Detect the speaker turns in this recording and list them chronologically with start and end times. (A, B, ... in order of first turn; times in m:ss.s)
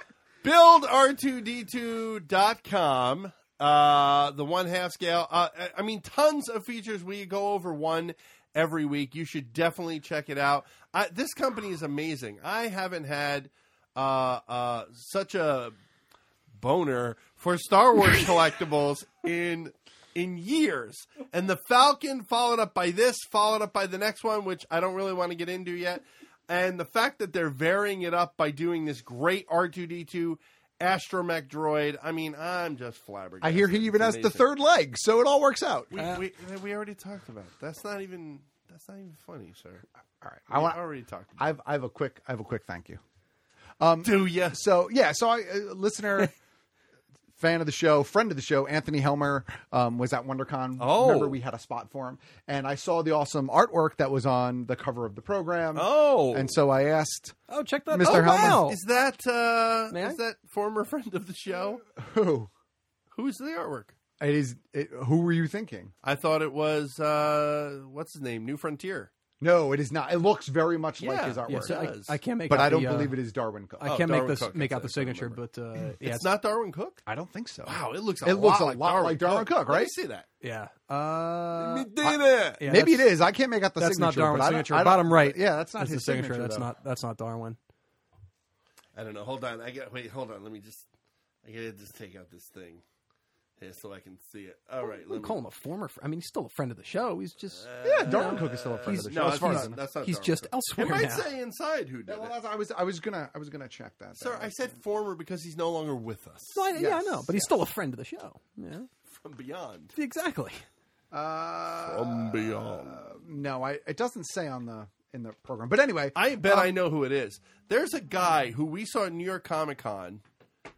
0:00.4-0:15.7 A
0:16.6-0:34.4 A
0:33.4-0:35.9 B
0:35.9-0:39.8 A
0:35.9-0:36.2 C
0:40.2-0:40.8 B
0:40.5-0:41.4 A
0:41.4-0:43.0 B
0:43.8-0:46.3 B
0:44.0-0:44.6 A
0:47.4-0:57.4 B
0:50.8-0:51.4 A
0:55.7-0:56.6 A
0:57.5-0:58.8 C
0:57.9-0:58.6 B
0:58.0-1:01.8 A
0:59.9-1:00.2 C
1:01.9-1:02.5 B
1:03.1-1:03.9 A
1:04.2-1:05.9 B
1:06.0-1:09.1 A
1:09.4-1:11.8 B
1:11.0-1:12.2 A
1:11.5-1:13.2 C
1:12.5-1:14.0 B
1:13.8-1:16.3 C
1:13.8-1:15.4 A
1:16.0-1:17.0 A
1:17.0-1:19.9 B
1:17.6-1:20.3 A
1:20.4-1:21.9 C
1:21.6-1:22.6 A
1:22.0-1:26.7 B
1:22.6-1:23.1 C
1:23.8-1:27.6 C
1:28.9-1:30.8 A
1:31.4-1:32.8 A
1:33.6-1:35.4 A
1:34.8-1:41.2 C
1:37.6-1:42.3 A
1:37.8-1:39.8 B
1:42.1-1:44.8 B
1:44.2-1:46.6 A
1:46.5-1:48.9 C
1:46.7-1:47.5 B
1:49.1-1:49.9 A
1:49.9-1:50.6 C
1:51.1-1:56.7 B
1:51.8-1:53.0 A
1:56.1-2:00.2 A